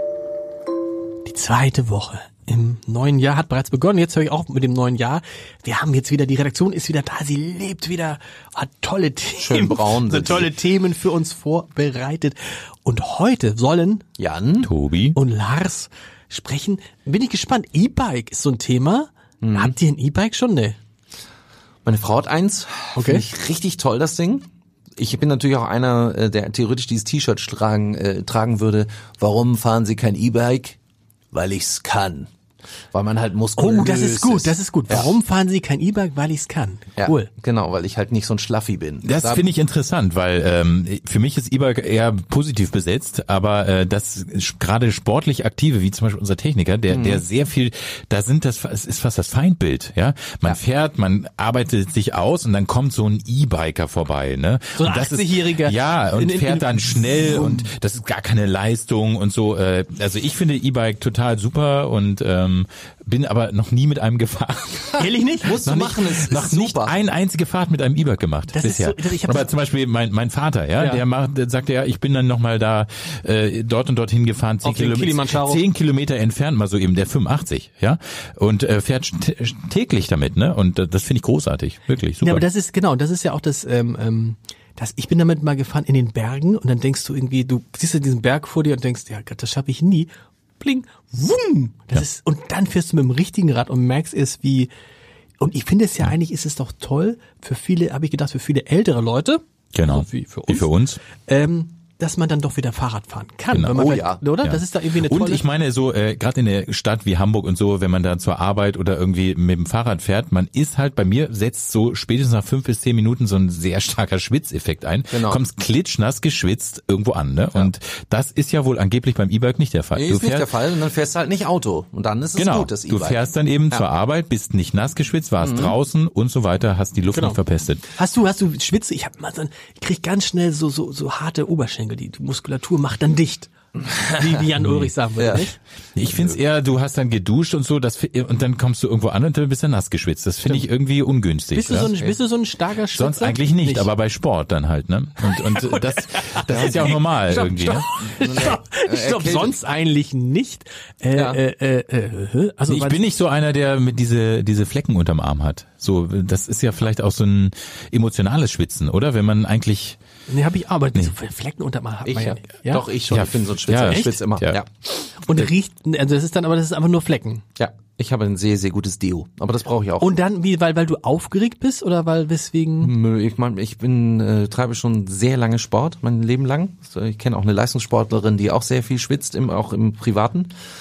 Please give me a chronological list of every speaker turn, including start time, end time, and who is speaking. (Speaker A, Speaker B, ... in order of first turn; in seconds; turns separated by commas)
Speaker A: 1.3-14.0, Speaker B: 9.4-10.5, Speaker B: 14.2-14.7, Speaker C: 14.6-15.2, Speaker A: 15.1-20.8, Speaker B: 19.4-19.8, Speaker B: 21.9-30.8, Speaker A: 22.9-23.3, Speaker B: 31.3-32.3, Speaker B: 32.9-35.1, Speaker A: 33.6-37.3, Speaker B: 37.0-39.5, Speaker C: 39.0-82.5, Speaker B: 46.9-47.2, Speaker A: 54.8-57.7, Speaker A: 65.0-65.6, Speaker B: 65.4-67.0, Speaker A: 68.5-69.5, Speaker A: 70.8-71.0, Speaker A: 74.6-75.6, Speaker A: 82.2-94.7, Speaker A: 95.4-100.7, Speaker C: 99.7-101.0, Speaker A: 101.2-105.5, Speaker C: 103.5-103.9, Speaker B: 103.7-104.2, Speaker C: 104.4-120.5, Speaker B: 115.1-115.4, Speaker B: 120.0-123.9, Speaker C: 122.4-127.8, Speaker B: 125.4-125.8, Speaker A: 127.1-127.4, Speaker A: 127.9-135.6, Speaker C: 134.6-134.9, Speaker B: 135.2-135.5, Speaker C: 136.0-141.9, Speaker B: 136.0-136.4, Speaker A: 141.5-143.9, Speaker B: 141.7-142.2, Speaker C: 142.9-147.9, Speaker A: 145.3-153.1, Speaker B: 146.5-146.8, Speaker B: 148.0-149.6, Speaker B: 151.1-151.4, Speaker C: 152.7-160.0, Speaker A: 160.3-162.9, Speaker B: 162.0-164.7, Speaker C: 163.1-164.6, Speaker A: 163.8-164.2, Speaker A: 164.9-167.4, Speaker B: 167.6-170.2, Speaker A: 170.0-172.9, Speaker B: 172.8-180.5